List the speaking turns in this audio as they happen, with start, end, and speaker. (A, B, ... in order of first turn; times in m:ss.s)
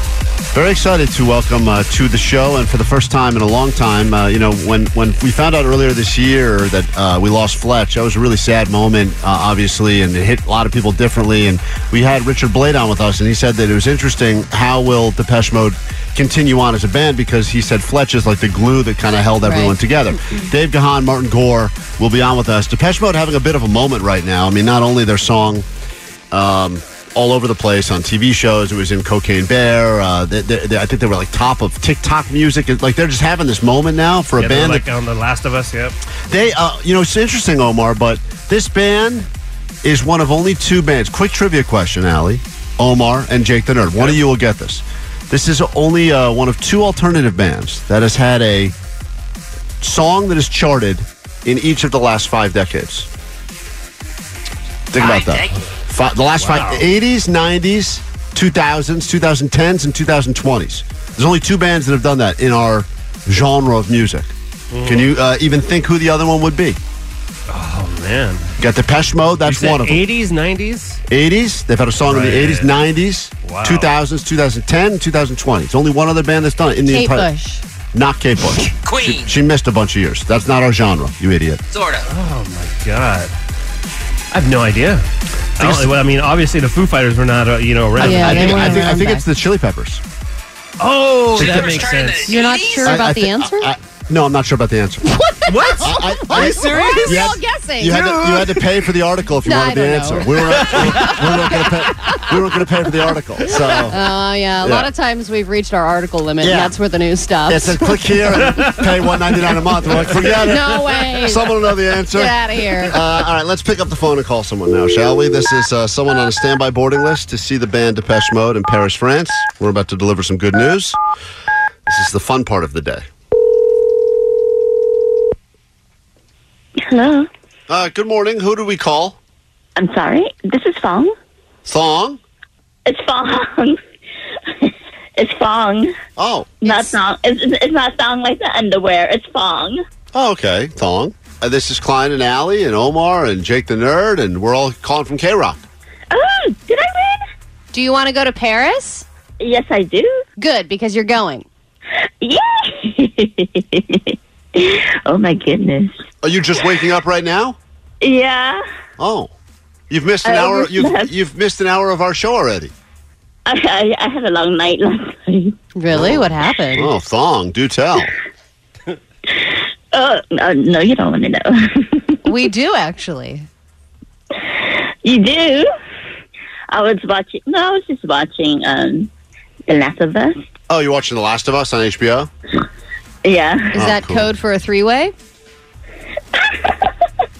0:00.5-0:25.7 A
0:19.4-0:19.7 B
0:26.3-0:34.8 A
0:34.4-0:35.9 C
0:36.3-0:39.3 A
0:39.8-0:48.7 A
0:49.8-0:53.1 A
0:54.9-1:04.3 A
0:55.0-0:55.5 D
0:56.4-0:56.8 C
1:04.7-1:05.1 C
1:04.8-1:06.8 A
1:07.5-1:08.5 C
1:08.6-1:10.0 A
1:09.4-1:11.0 C
1:11.1-1:17.3 A
1:12.0-1:12.8 C
1:13.4-1:13.9 C
1:16.9-1:17.6 B
1:17.9-1:21.6 A
1:18.8-1:19.4 D
1:21.7-1:22.0 D
1:22.1-1:23.3 C
1:24.3-1:25.0 C
1:25.6-1:28.8 C
1:25.6-1:25.9 A
1:28.0-1:30.0 A
1:28.0-1:29.2 B
1:30.8-1:32.4 C
1:31.3-1:31.9 A
1:31.3-1:33.0 D
1:32.2-1:33.7 B
1:32.8-1:35.1 A
1:35.0-1:38.6 B
1:35.5-1:37.3 C
1:35.8-1:44.0 A
1:39.4-1:42.2 B
1:40.6-1:41.2 C
1:43.8-1:48.0 B
1:44.6-1:44.9 A
1:46.4-1:46.7 A
1:47.5-2:01.0 A
1:48.5-1:48.8 C
1:50.0-1:50.4 C
1:50.4-1:51.5 B
1:52.1-1:53.0 B
2:01.8-2:03.0 A
2:06.8-2:07.3 E
2:07.7-2:09.2 A
2:09.8-2:11.1 E
2:11.6-2:12.2 A
2:12.8-2:13.8 E
2:14.5-2:15.9 E
2:16.2-2:16.8 A
2:16.6-2:19.8 E
2:20.1-2:25.6 A
2:26.1-2:27.3 E
2:27.7-2:29.0 B
2:29.4-2:30.2 E
2:30.4-2:31.4 B
2:32.2-2:35.9 E
2:36.2-2:37.6 A
2:38.0-2:38.6 E
2:39.0-2:39.3 A
2:39.9-2:42.7 A
2:40.2-2:41.1 E
2:43.4-2:45.6 E
2:45.8-2:46.9 B
2:45.9-2:48.1 A
2:49.3-2:52.2 E
2:52.2-2:53.5 B
2:54.3-2:55.7 E
2:56.7-2:59.1 E
2:59.7-3:00.4 E
3:00.7-3:02.3 A
3:03.2-3:03.8 E
3:03.7-3:05.1 B
3:03.8-3:04.3 A
3:06.3-3:06.9 E